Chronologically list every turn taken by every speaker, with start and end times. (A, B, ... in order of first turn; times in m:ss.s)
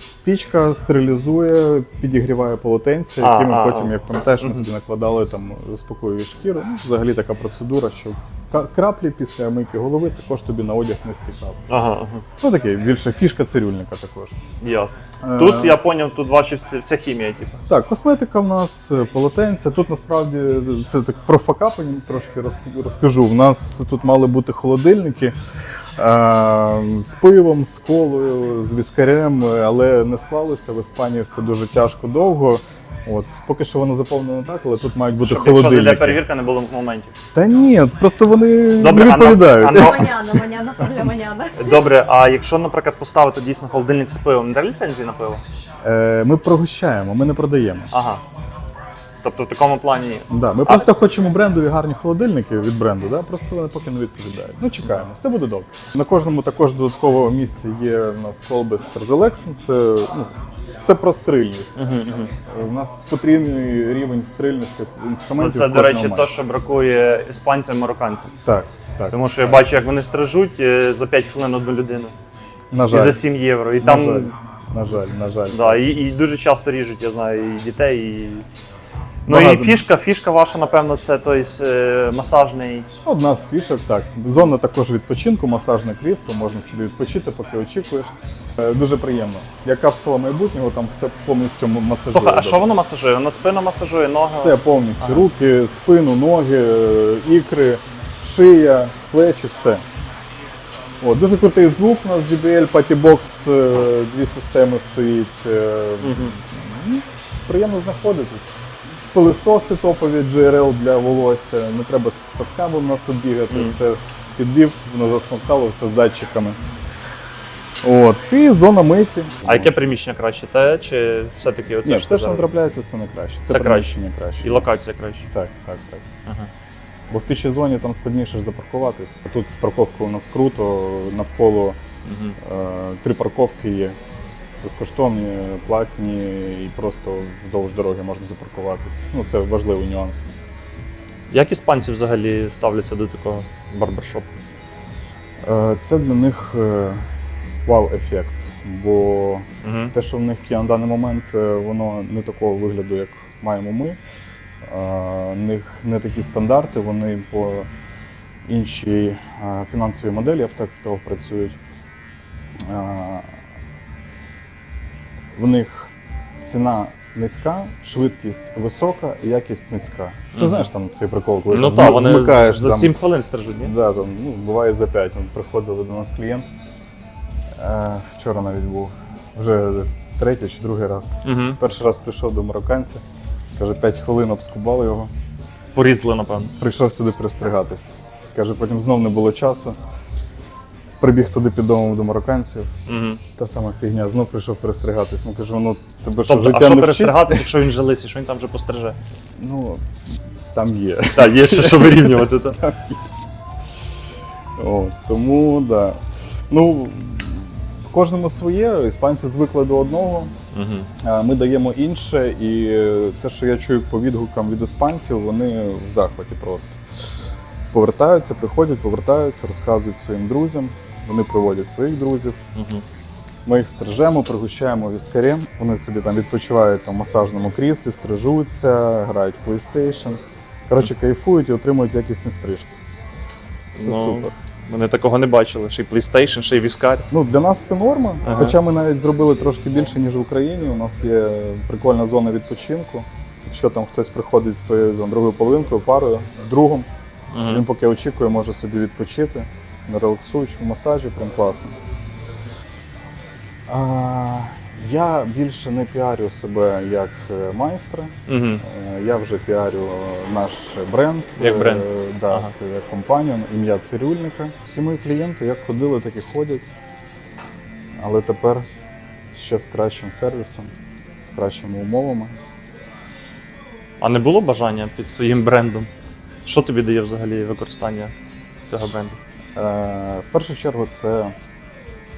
0:00.2-0:11.6 A
0:03.2-0:04.6 B
0:11.7-0:12.2 B
0:12.4-0:14.4 A
0:14.6-0:17.6 B
0:15.2-0:15.8 A
0:17.7-0:25.4 A
0:26.0-0:36.2 A
0:35.2-0:37.1 B
0:37.3-0:40.1 A
0:38.8-0:40.2 B
0:39.6-0:41.8 C
0:41.6-0:45.4 B
0:45.8-0:47.9 A
0:47.9-0:48.2 B
0:49.2-0:50.9 B
0:50.3-1:01.9 A
1:01.8-1:02.3 B
1:02.4-1:06.3 A
1:05.4-1:08.3 B
1:08.4-1:09.2 A
1:09.1-1:12.1 B
1:12.7-1:13.2 A
1:12.9-1:14.4 B
1:13.8-1:15.9 A
1:15.5-1:18.5 B
1:19.3-1:22.9 B
1:19.3-1:19.8 A
1:23.0-1:32.6 A
1:32.1-1:35.3 B
1:34.3-1:39.8 A
1:41.0-1:48.5 A
1:46.0-1:46.4 B
1:49.1-1:56.6 A
1:53.5-1:53.8 B
1:57.8-1:59.7 A
1:59.4-2:02.5 B
2:01.8-2:04.7 A
2:03.5-2:05.2 B
2:05.3-2:06.1 A
2:07.1-2:11.8 A
2:12.1-2:12.4 B
2:12.4-2:14.0 A
2:14.6-2:20.3 A
2:21.3-2:24.3 B
2:25.4-2:27.1 A
2:27.7-2:34.0 A
2:29.6-2:29.9 B
2:34.6-2:37.7 A
2:38.5-2:41.6 A
2:42.6-2:43.4 A
2:45.3-2:53.0 A
2:50.4-2:50.7 B
2:51.5-2:53.7 B
2:53.6-2:56.5 A
2:57.5-3:03.0 A
3:01.2-3:01.6 B
3:03.6-3:05.1 A
3:05.8-3:06.5 B
3:06.5-3:09.8 A
3:11.0-3:12.7 A
3:12.9-3:13.2 B
3:13.4-3:17.5 A
3:16.3-3:19.0 B
3:19.4-3:19.8 A
3:20.5-3:23.0 A
3:21.1-3:22.6 B
3:24.6-3:30.3 A
3:30.5-3:30.9 B
3:31.0-3:36.8 A
3:37.7-3:42.4 A
3:42.6-3:42.8 B
3:43.4-3:52.7 A
3:53.7-3:54.3 A
3:53.8-3:57.1 B
3:57.1-4:06.9 A
3:58.2-3:58.6 B
4:07.3-4:07.6 B
4:07.4-4:11.7 A
4:13.7-4:26.7 A
4:18.3-4:18.6 B
4:21.4-4:22.5 B
4:28.0-4:28.7 A
4:29.3-4:32.4 A
4:34.0-4:35.9 B
4:36.4-4:38.1 B
4:38.6-4:39.2 B
4:39.6-4:41.3 A